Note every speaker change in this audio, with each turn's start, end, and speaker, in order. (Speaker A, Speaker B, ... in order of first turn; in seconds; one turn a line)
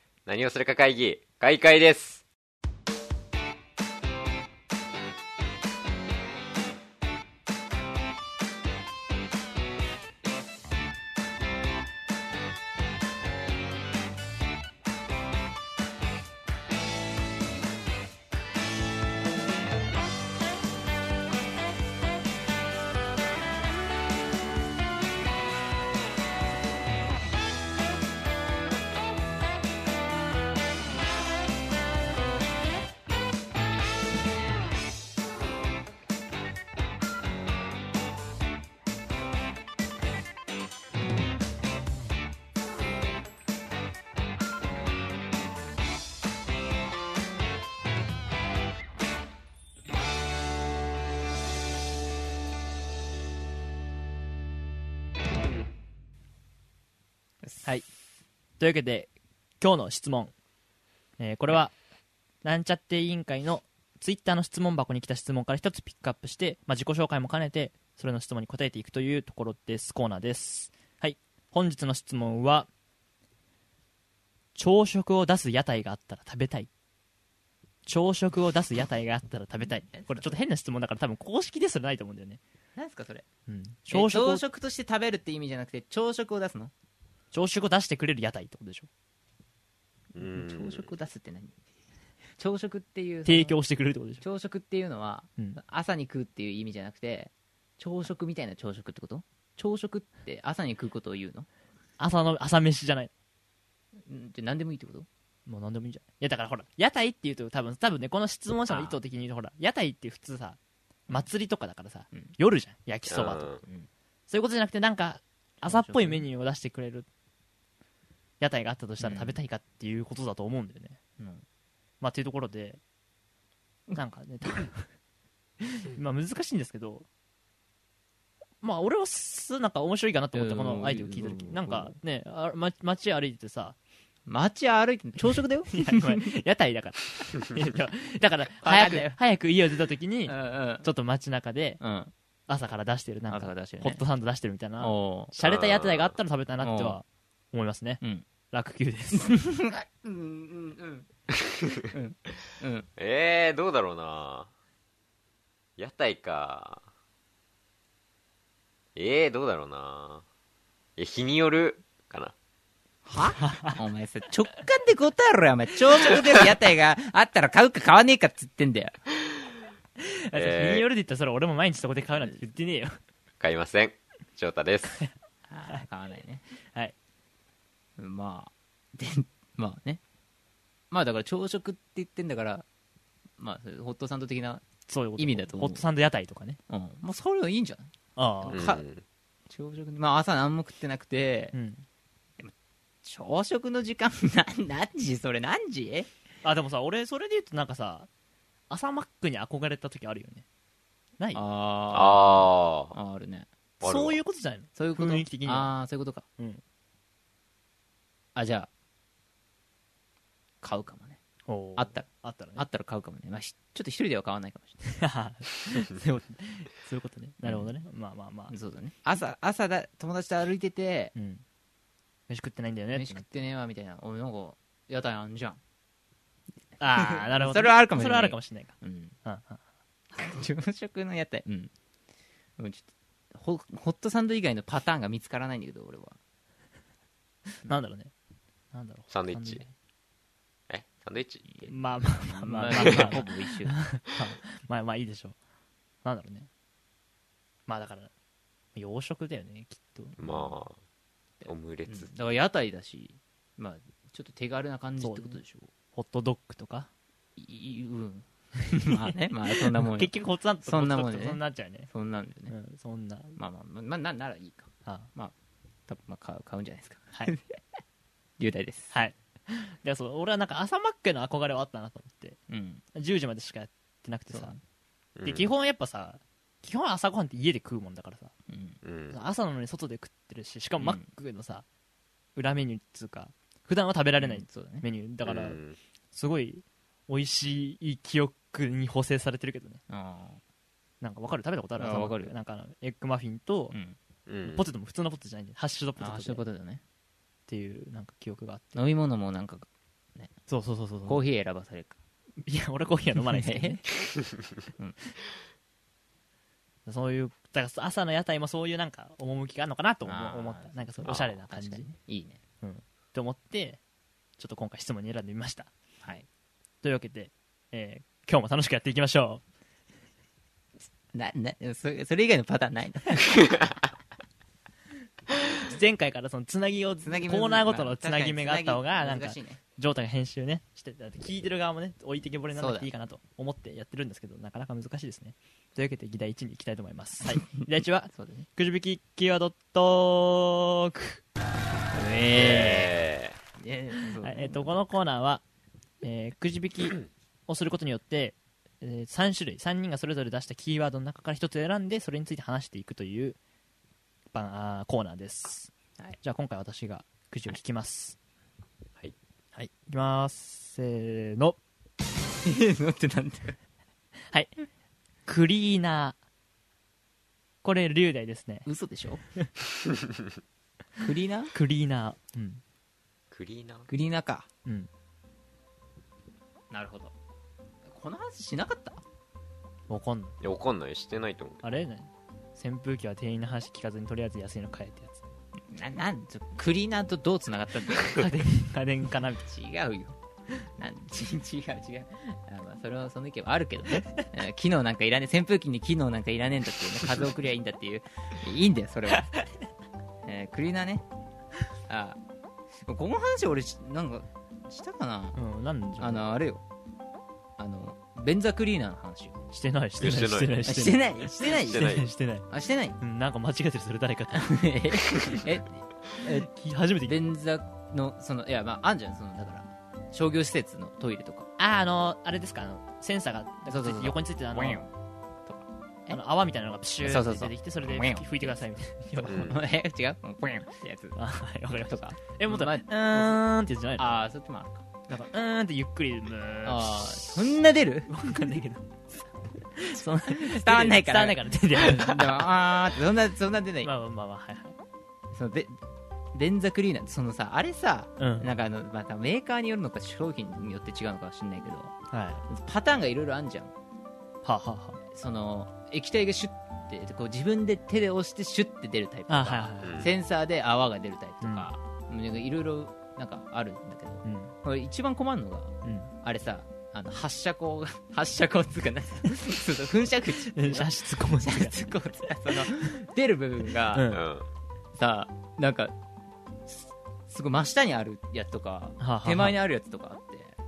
Speaker A: 0.3-2.2
Speaker B: 58.6-60.4
Speaker B: 61.2-61.8
Speaker B: 62.4-72.7
Speaker B: 74.5-76.7
Speaker B: 77.9-82.4
Speaker C: 79.9-80.4
Speaker C: 82.8-83.3
Speaker B: 83.5-84.4
Speaker C: 83.9-86.7
Speaker B: 87.3-88.9
Speaker A: 90.2-90.9
Speaker C: 90.2-91.6
Speaker C: 92.4-93.6
Speaker B: 93.2-94.2
Speaker C: 94.2-101.5
Speaker B: 102.0-103.1
Speaker C: 104.0-105.1
Speaker B: 105.5-110.6
Speaker C: 108.7-109.0
Speaker B: 111.1-113.5
Speaker A: 113.1-113.6
Speaker C: 113.6-113.9
Speaker B: 114.3-117.1
Speaker C: 115.6-116.3
Speaker B: 118.4-121.0
Speaker C: 119.0-119.4
Speaker C: 121.2-121.4
Speaker B: 122.0-122.8
Speaker B: 123.9-124.9
Speaker B: 125.6-127.1
Speaker B: 128.6-133.8
Speaker C: 130.3-132.0
Speaker C: 134.3-136.3
Speaker B: 135.7-141.8
Speaker C: 138.6-139.2
Speaker C: 140.3-140.9
Speaker C: 141.8-142.1
Speaker B: 142.5-149.4
Speaker C: 143.3-144.0
Speaker C: 144.8-145.3
Speaker A: 145.4-146.2
Speaker C: 146.6-147.0
Speaker C: 148.0-148.3
Speaker C: 149.1-151.1
Speaker C: 151.8-152.9
Speaker A: 153.0-154.5
Speaker A: 155.8-156.8
Speaker A: 159.0-160.2
Speaker A: 161.0-162.3
Speaker C: 163.1-169.0
Speaker B: 163.4-163.8
Speaker B: 170.0-173.0
Speaker A: 170.3-170.9
Speaker A: 173.4-175.0
Speaker C: 175.5-176.4
Speaker C: 178.0-180.0
Speaker C: 180.9-182.7
Speaker C: 183.4-184.6
Speaker B: 184.9-186.6
Speaker C: 185.2-185.8
Speaker C: 186.7-188.8
Speaker B: 188.2-188.6
Speaker A: 188.5-189.0
Speaker C: 189.5-191.5
Speaker B: 191.5-191.8
Speaker C: 193.0-196.1
Speaker B: 196.4-198.1
Speaker B: 198.7-200.5
Speaker C: 201.3-203.5
Speaker A: 201.9-203.0
Speaker B: 203.8-205.8
Speaker A: 203.8-204.2
Speaker C: 204.8-206.3
Speaker C: 208.3-208.7
Speaker C: 210.6-211.2
Speaker B: 211.5-212.6
Speaker C: 211.8-214.8
Speaker B: 214.9-218.6
Speaker C: 217.4-217.7
Speaker C: 218.5-221.1
Speaker B: 221.2-221.4
Speaker B: 222.3-223.3
Speaker C: 222.9-225.6
Speaker B: 226.8-229.6
Speaker C: 226.8-229.2
Speaker C: 230.1-231.7
Speaker C: 232.6-236.2
Speaker B: 237.6-238.1
Speaker B: 238.7-239.7
Speaker A: 239.1-239.6
Speaker A: 240.7-241.4
Speaker C: 241.4-241.7
Speaker B: 241.7-245.4
Speaker C: 242.3-243.8
Speaker B: 246.0-246.5
Speaker B: 247.7-248.1
Speaker B: 248.8-250.2
Speaker A: 250.2-250.8
Speaker C: 250.2-250.5
Speaker C: 251.4-255.7
Speaker A: 251.4-252.1
Speaker B: 255.0-256.9
Speaker C: 257.4-262.5
Speaker B: 258.7-261.9
Speaker B: 262.5-263.4
Speaker C: 263.4-265.3
Speaker C: 265.9-267.6
Speaker C: 268.4-268.9
Speaker B: 268.9-272.4
Speaker C: 272.5-272.8
Speaker B: 272.9-274.6
Speaker C: 274.3-274.6
Speaker A: 275.2-275.5
Speaker B: 275.2-278.3
Speaker C: 278.5-278.8
Speaker A: 278.8-279.2
Speaker B: 279.1-281.6
Speaker C: 280.8-281.1
Speaker B: 282.4-285.6
Speaker C: 284.2-284.9
Speaker A: 285.2-285.8
Speaker B: 286.1-289.8
Speaker C: 289.9-290.4
Speaker B: 291.0-293.8
Speaker C: 291.8-292.3
Speaker C: 293.7-294.0
Speaker A: 294.3-294.7
Speaker B: 294.5-296.4
Speaker C: 296.0-296.8
Speaker B: 297.5-298.9
Speaker C: 298.8-300.3
Speaker B: 300.5-301.2
Speaker C: 301.1-302.0
Speaker B: 302.4-304.1
Speaker C: 303.2-303.8
Speaker B: 306.9-311.9
Speaker C: 310.0-312.4
Speaker B: 312.6-313.8
Speaker B: 314.4-315.7
Speaker C: 316.0-316.3
Speaker B: 316.8-319.4
Speaker C: 321.1-323.8
Speaker B: 325.4-341.2
Speaker C: 327.0-329.6
Speaker C: 332.6-332.9
Speaker C: 338.1-338.5
Speaker C: 341.9-342.9
Speaker A: 342.3-343.4
Speaker C: 343.6-344.8
Speaker B: 344.2-345.4
Speaker B: 346.0-353.4
Speaker B: 354.3-358.2
Speaker B: 359.5-361.6
Speaker C: 362.4-363.6
Speaker B: 365.3-366.2
Speaker B: 367.6-368.7
Speaker C: 368.7-369.2
Speaker C: 371.0-371.5
Speaker B: 371.5-372.6
Speaker A: 373.3-373.9
Speaker C: 373.9-374.5
Speaker C: 376.7-377.1
Speaker C: 377.9-379.0
Speaker B: 379.9-380.4
Speaker A: 380.4-381.6
Speaker B: 381.6-385.3
Speaker C: 385.7-388.3
Speaker B: 388.1-389.5
Speaker C: 389.4-390.2
Speaker C: 390.8-399.4
Speaker C: 400.2-401.1
Speaker C: 401.9-402.2
Speaker C: 402.8-405.4
Speaker B: 405.4-406.3
Speaker C: 406.0-406.6
Speaker C: 407.6-409.4
Speaker B: 409.5-412.5
Speaker A: 410.0-410.6
Speaker C: 410.6-412.0
Speaker A: 411.6-412.1
Speaker C: 412.5-413.0
Speaker B: 413.0-414.6
Speaker C: 414.3-416.5
Speaker B: 416.2-417.2
Speaker C: 417.0-421.5
Speaker B: 421.6-424.8
Speaker C: 423.7-424.9
Speaker C: 425.5-426.2
Speaker B: 426.1-429.6
Speaker C: 427.0-431.2
Speaker A: 429.3-429.6
Speaker B: 431.1-434.1
Speaker C: 431.9-433.4
Speaker C: 434.0-435.0
Speaker B: 435.1-442.5
Speaker C: 436.7-438.1
Speaker C: 440.2-443.9
Speaker B: 443.8-444.8
Speaker C: 445.3-445.8
Speaker C: 446.3-451.9
Speaker B: 448.2-448.5
Speaker B: 452.1-452.4
Speaker C: 452.5-453.7
Speaker B: 454.4-455.0
Speaker C: 455.1-474.1
Speaker B: 459.3-460.1
Speaker A: 459.8-460.1
Speaker B: 461.4-461.7
Speaker B: 464.2-464.5
Speaker B: 465.8-466.1
Speaker B: 470.4-471.9
Speaker B: 473.9-474.2
Speaker A: 474.1-474.5
Speaker C: 474.9-475.9
Speaker C: 476.7-480.6
Speaker B: 479.0-479.6